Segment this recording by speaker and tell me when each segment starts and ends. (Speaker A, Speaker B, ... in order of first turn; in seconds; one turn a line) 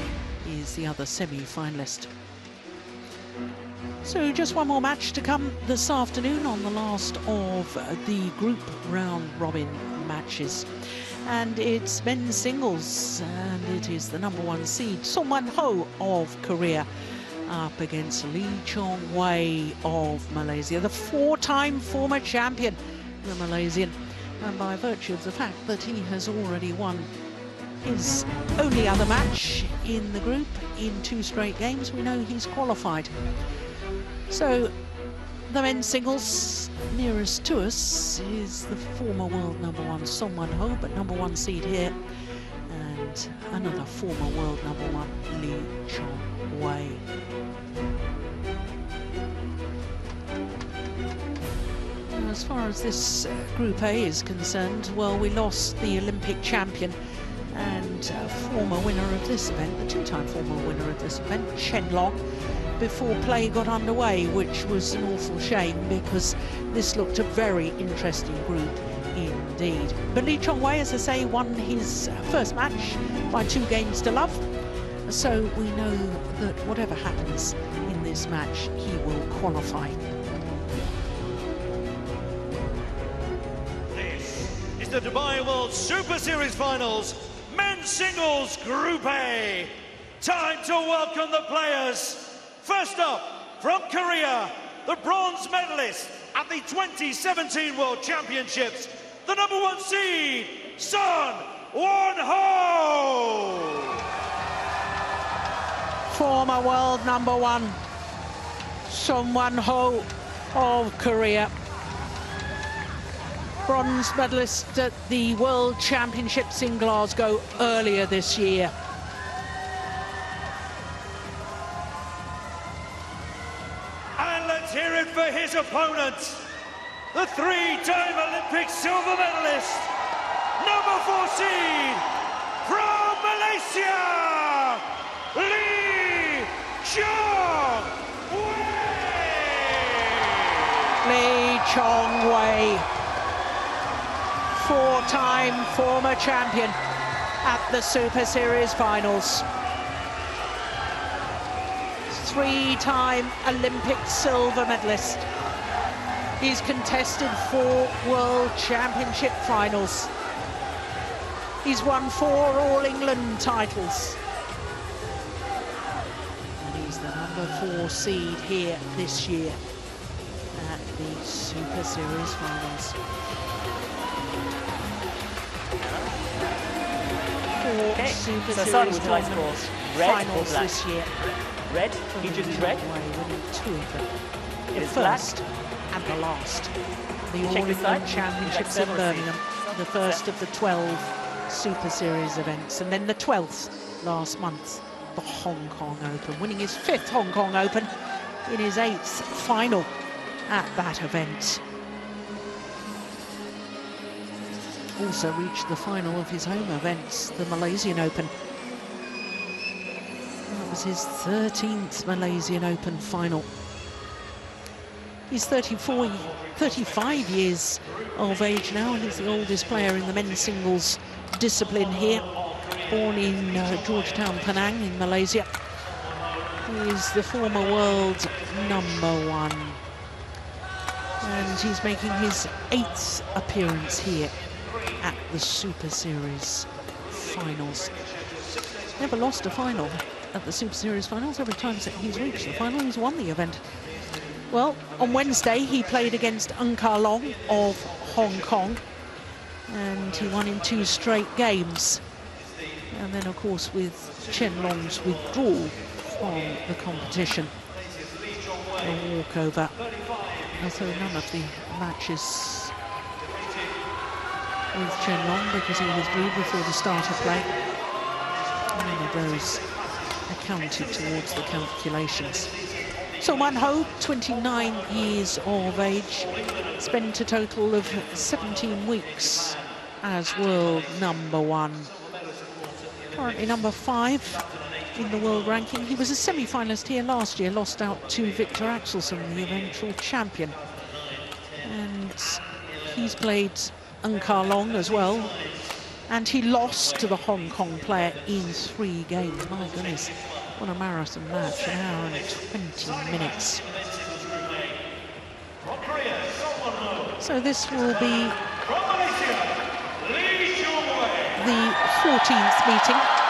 Speaker A: 0.4-2.1
Speaker A: 4.0-27.1
Speaker A: 27.8-33.1
Speaker A: 34.3-34.7
Speaker A: 35.5-47.0
Speaker A: 52.0-74.5
Speaker A: 75.0-80.0
Speaker B: 83.9-104.0
Speaker A: 106.1-107.8
Speaker A: 108.9-111.5
Speaker A: 113.7-118.7
Speaker B: 124.2-126.5
Speaker B: 127.1-129.9
Speaker B: 130.6-132.1
Speaker B: 132.6-141.0
Speaker A: 141.0-142.9
Speaker A: 144.5-146.8
Speaker A: 147.4-149.5
Speaker A: 152.1-155.3
Speaker A: 156.4-160.1
Speaker A: 161.6-164.2
Speaker A: 166.6-169.6
Speaker A: 170.5-173.0
Speaker A: 177.5-181.2
Speaker C: 177.9-180.8
Speaker C: 181.7-182.8
Speaker A: 182.1-184.1
Speaker A: 184.7-186.7
Speaker C: 184.7-185.3
Speaker A: 187.3-199.9
Speaker C: 187.4-190.2
Speaker A: 200.5-201.6
Speaker A: 205.0-208.3
Speaker A: 210.5-213.5
Speaker A: 215.3-225.5
Speaker A: 226.6-229.8
Speaker A: 231.2-238.1
Speaker A: 239.0-243.9
Speaker A: 244.5-248.8
Speaker A: 249.7-252.1
Speaker A: 252.9-257.5
Speaker A: 258.8-262.8
Speaker A: 264.7-267.5
Speaker A: 268.7-272.5
Speaker A: 273.2-281.9
Speaker A: 283.1-290.6
Speaker A: 291.6-303.7
Speaker B: 303.7-304.8
Speaker B: 305.6-307.2
Speaker A: 307.2-308.4
Speaker B: 308.5-311.4
Speaker A: 311.4-313.1